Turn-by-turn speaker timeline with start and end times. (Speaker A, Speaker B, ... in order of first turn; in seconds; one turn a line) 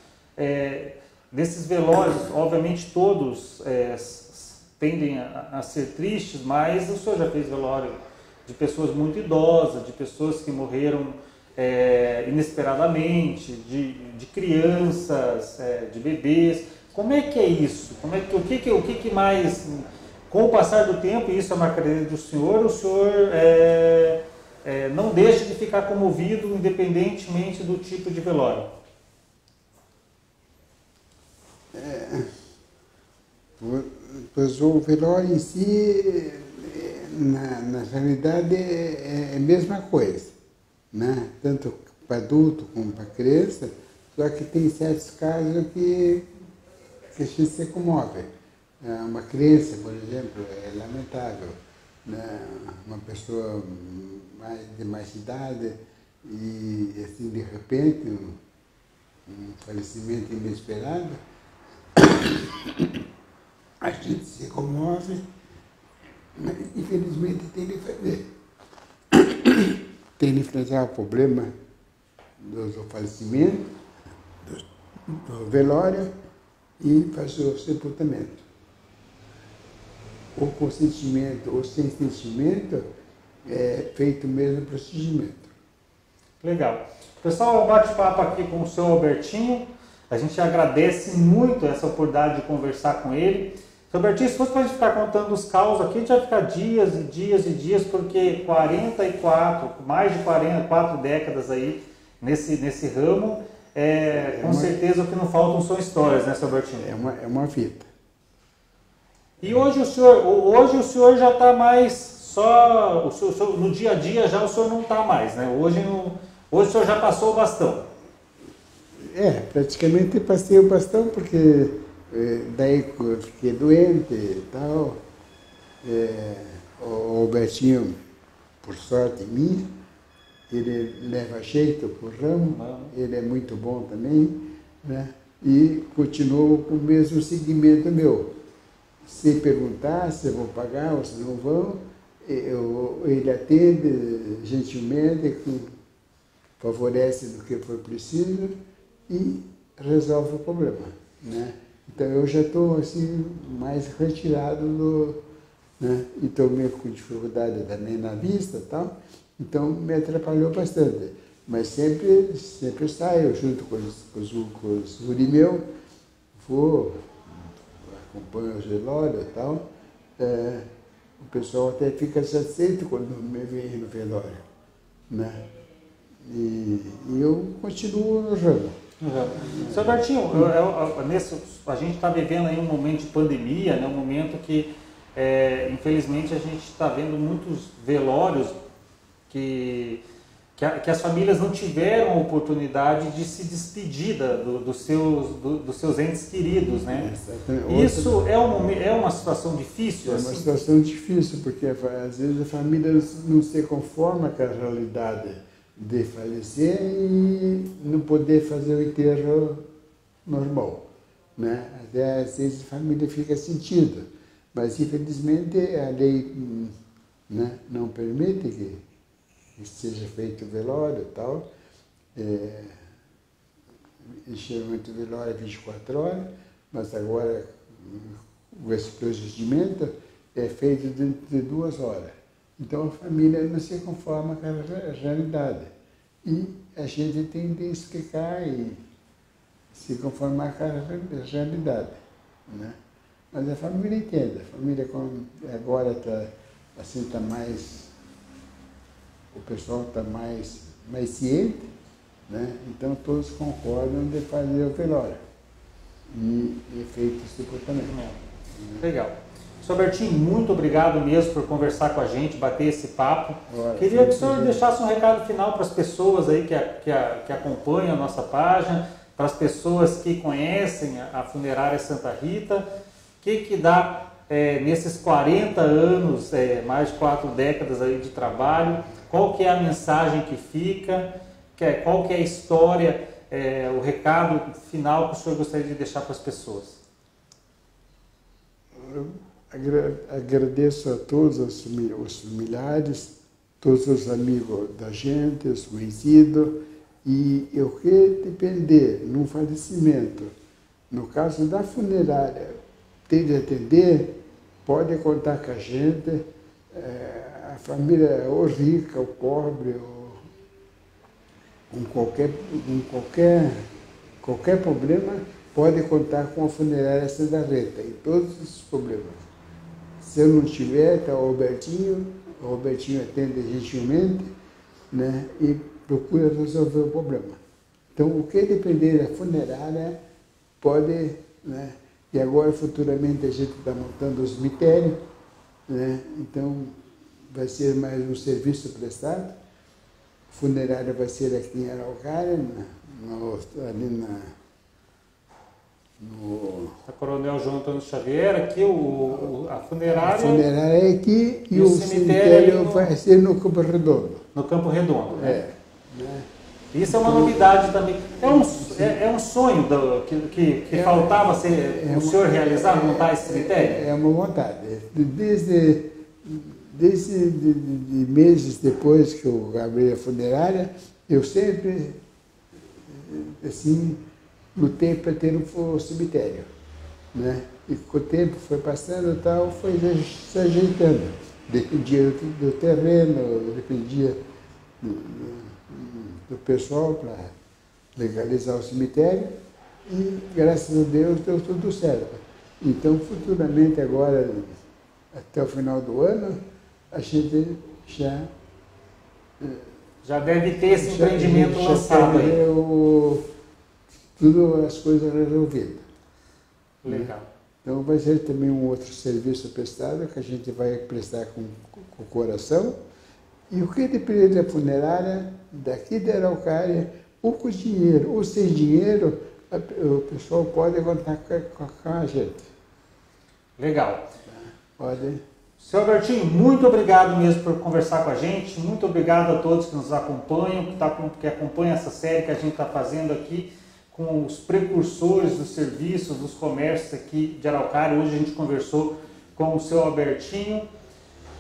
Speaker A: 0.4-28.7
Speaker B: 31.7-32.4
Speaker B: 33.6-40.4
Speaker B: 40.9-46.3
Speaker B: 47.1-58.4
Speaker B: 59.3-61.2
Speaker B: 62.0-63.0
Speaker B: 63.8-65.3
Speaker B: 66.3-68.3
Speaker B: 69.1-71.5
Speaker B: 72.4-73.8
Speaker B: 74.4-76.1
Speaker B: 76.8-78.5
Speaker B: 80.3-82.9
Speaker B: 83.4-85.5
Speaker A: 86.4-106.9
Speaker B: 104.2-104.8
Speaker B: 106.8-107.9
Speaker A: 109.4-117.9
Speaker B: 119.0-125.0
Speaker B: 125.8-128.0
Speaker B: 128.6-129.7
Speaker B: 130.5-138.4
Speaker A: 132.5-132.9
Speaker B: 139.1-145.8
Speaker B: 146.6-155.2
Speaker B: 155.8-165.7
Speaker B: 166.4-167.1
Speaker B: 167.8-169.7
Speaker B: 170.2-170.7
Speaker B: 171.2-174.4
Speaker B: 175.1-175.5
Speaker B: 176.2-178.8
Speaker A: 179.0-188.6
Speaker B: 179.3-180.5
Speaker A: 189.3-190.0
Speaker A: 190.6-197.1
Speaker B: 196.9-198.4
Speaker A: 197.7-200.5
Speaker B: 200.1-209.7
Speaker B: 210.2-216.7
Speaker B: 217.3-218.8
Speaker B: 219.6-221.5
Speaker B: 222.2-222.8
Speaker B: 224.2-235.7
Speaker B: 236.2-238.8
Speaker B: 239.7-242.8
Speaker B: 243.3-247.9
Speaker B: 249.3-251.7
Speaker B: 252.3-255.2
Speaker B: 256.1-257.9
Speaker A: 257.8-258.2
Speaker B: 258.6-258.8
Speaker A: 258.8-272.7
Speaker B: 263.5-264.6
Speaker A: 273.2-286.8
Speaker B: 288.8-300.3
Speaker B: 300.9-310.3
Speaker B: 311.7-313.7
Speaker B: 314.2-319.2
Speaker B: 320.0-324.3
Speaker B: 324.9-327.4
Speaker B: 327.9-330.0
Speaker B: 330.6-335.0
Speaker B: 335.7-339.4
Speaker B: 340.3-344.4
Speaker B: 346.0-346.8
Speaker A: 346.9-350.5
Speaker B: 349.1-354.3
Speaker A: 351.5-352.9
Speaker A: 354.4-355.4
Speaker B: 355.1-356.3
Speaker A: 356.7-363.9
Speaker B: 356.9-357.6
Speaker B: 358.2-359.0
Speaker B: 360.7-372.0
Speaker B: 372.8-376.5
Speaker B: 377.1-384.2
Speaker B: 384.8-387.4
Speaker B: 387.9-394.6
Speaker B: 395.1-398.3
Speaker B: 399.4-399.7
Speaker A: 400.0-402.4
Speaker B: 400.7-403.3
Speaker B: 404.2-405.9
Speaker A: 406.8-407.3
Speaker B: 406.9-407.1
Speaker B: 407.6-412.8
Speaker B: 413.5-422.5
Speaker A: 423.6-424.1
Speaker B: 424.3-425.2
Speaker A: 425.6-440.7